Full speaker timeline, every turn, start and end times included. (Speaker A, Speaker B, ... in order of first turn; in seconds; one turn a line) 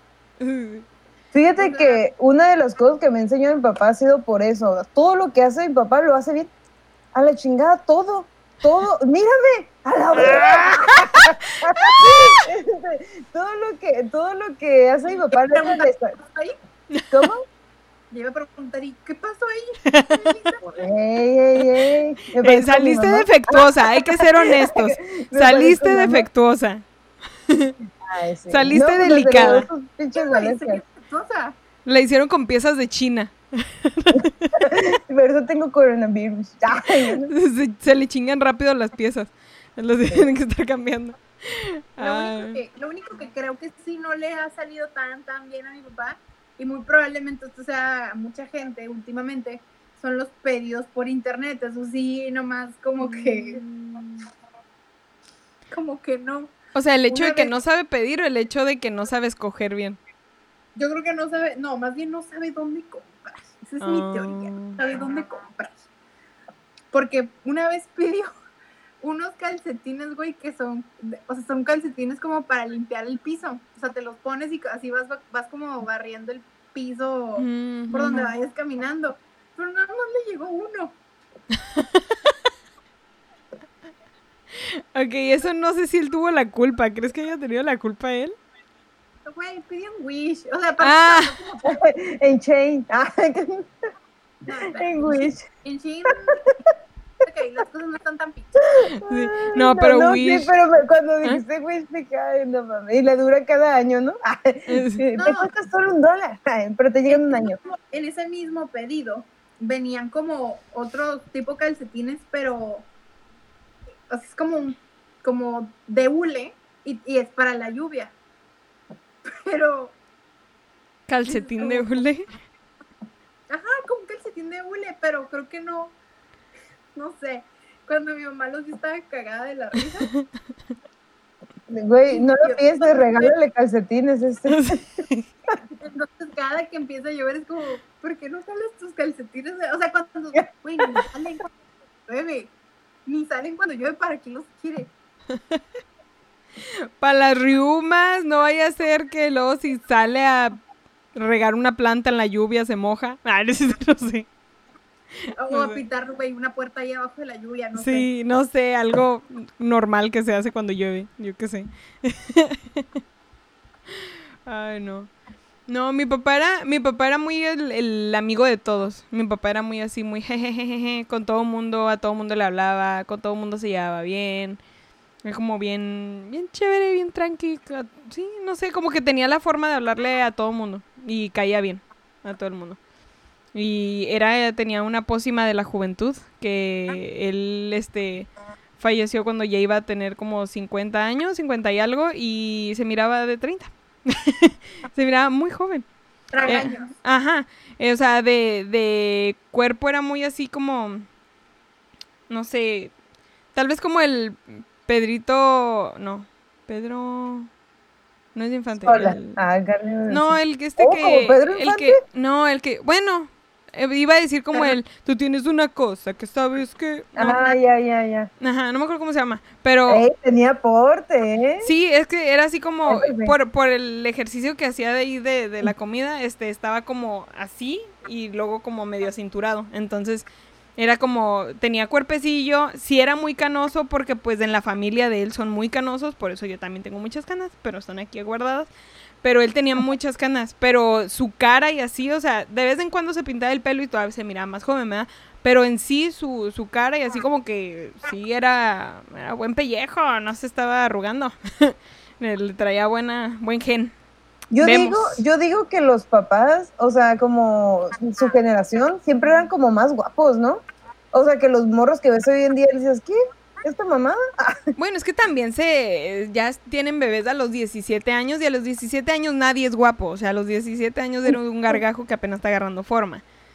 Speaker A: 0.4-0.9
Speaker B: 1.3-6.5
Speaker C: 1.5-2.0
Speaker B: 7.1-16.2
Speaker A: 10.2-12.4
Speaker C: 15.3-16.6
Speaker A: 16.9-17.3
Speaker B: 17.1-17.5
Speaker C: 18.1-20.7
Speaker A: 19.9-20.2
Speaker B: 20.6-26.3
Speaker A: 22.4-26.9
Speaker A: 27.5-27.8
Speaker B: 28.0-30.8
Speaker A: 28.5-29.7
Speaker C: 30.1-31.6
Speaker A: 31.9-34.7
Speaker B: 34.1-37.3
Speaker A: 37.2-42.6
Speaker C: 42.0-53.6
Speaker A: 53.0-54.3
Speaker C: 55.7-56.5
Speaker A: 56.7-60.0
Speaker C: 57.1-57.5
Speaker C: 60.8-65.8
Speaker A: 63.8-64.8
Speaker C: 66.9-68.3
Speaker C: 69.0-81.0
Speaker A: 77.4-78.3
Speaker A: 84.5-88.4
Speaker C: 89.2-91.8
Speaker A: 90.8-91.3
Speaker B: 91.7-93.7
Speaker C: 94.5-96.5
Speaker B: 94.8-95.4
Speaker C: 97.2-98.6
Speaker B: 99.0-107.6
Speaker A: 99.0-100.5
Speaker A: 104.7-105.0
Speaker C: 105.2-105.5
Speaker C: 107.1-112.9
Speaker C: 114.1-118.1
Speaker C: 119.3-120.0
Speaker A: 121.1-122.3
Speaker C: 121.2-122.0
Speaker C: 123.5-126.0
Speaker C: 127.0-130.1
Speaker B: 131.7-134.8
Speaker C: 132.1-133.3
Speaker A: 134.5-135.3
Speaker C: 135.8-141.5
Speaker C: 142.1-142.5
Speaker C: 143.1-144.9
Speaker A: 146.6-150.6
Speaker A: 151.2-154.3
Speaker A: 155.2-155.8
Speaker C: 155.4-158.1
Speaker A: 157.8-162.9
Speaker A: 163.9-165.1
Speaker A: 165.7-174.6
Speaker A: 175.2-182.8
Speaker A: 183.5-195.8
Speaker C: 196.3-196.9
Speaker A: 196.5-201.1
Speaker A: 202.3-202.9
Speaker A: 203.6-207.5
Speaker A: 208.3-209.4
Speaker B: 208.8-212.0
Speaker A: 210.1-217.6
Speaker B: 217.2-218.3
Speaker A: 218.4-220.1
Speaker B: 219.9-221.7
Speaker A: 221.6-238.7
Speaker B: 222.9-223.3
Speaker A: 239.2-253.9
Speaker B: 254.5-264.7
Speaker A: 254.6-255.2
Speaker A: 264.8-273.2